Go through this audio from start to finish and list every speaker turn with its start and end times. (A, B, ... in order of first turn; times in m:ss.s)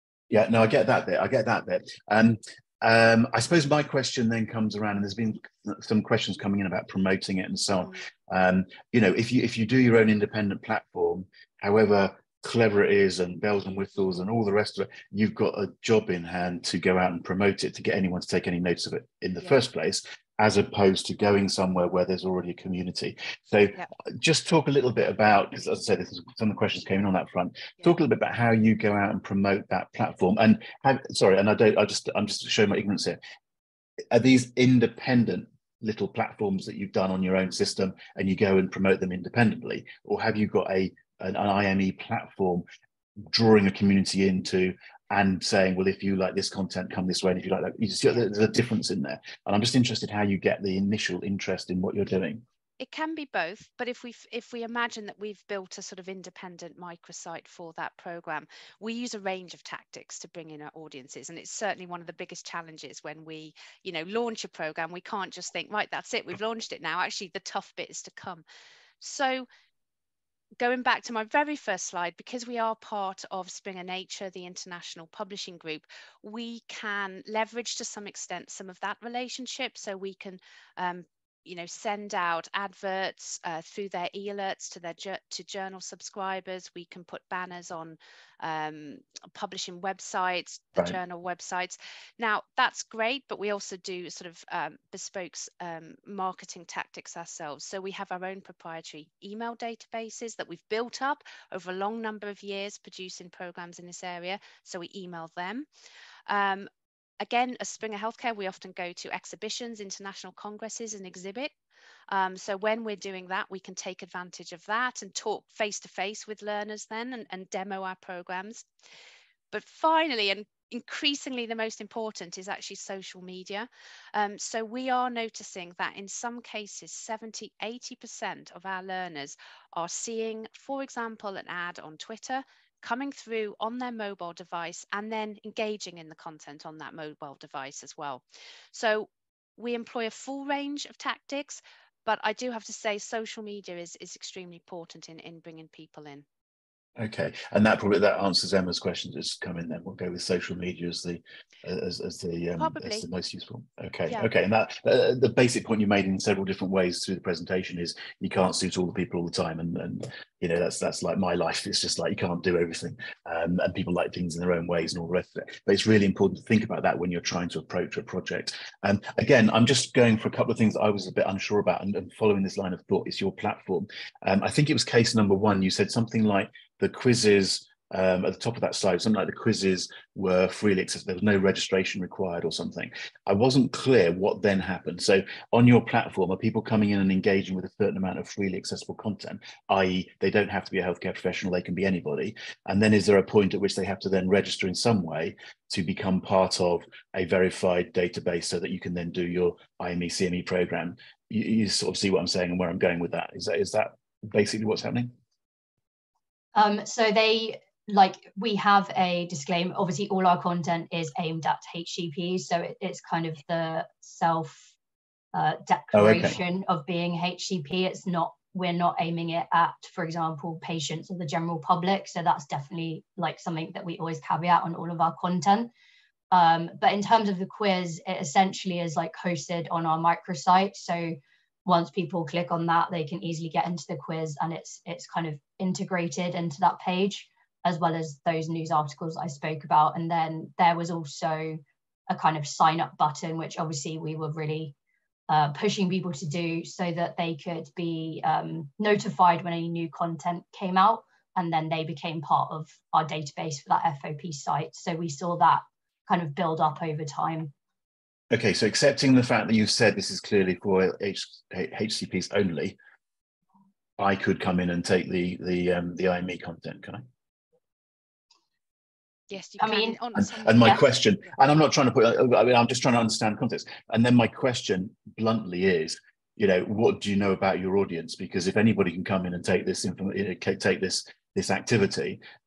0:00.3-0:33.2 A
0:34.1-0:42.7 A
0:43.3-0:52.4 A
0:52.8-1:08.4 B
1:09.0-1:09.5 B
1:10.6-1:45.7 B
1:46.3-1:46.7 B
1:47.2-1:51.5 B
1:52.1-1:58.7 B
1:59.5-2:26.3 B
2:27.0-3:25.1 A
2:32.6-2:33.1 B
3:26.5-3:34.7 C
3:35.3-3:45.7 C
3:35.9-3:36.4 A
3:46.3-4:04.7 C
4:05.3-4:17.5 C
4:18.3-4:22.8 A
4:24.0-4:27.0 A
4:29.3-4:30.9 B
4:29.6-4:30.0 C
4:30.2-4:42.2 A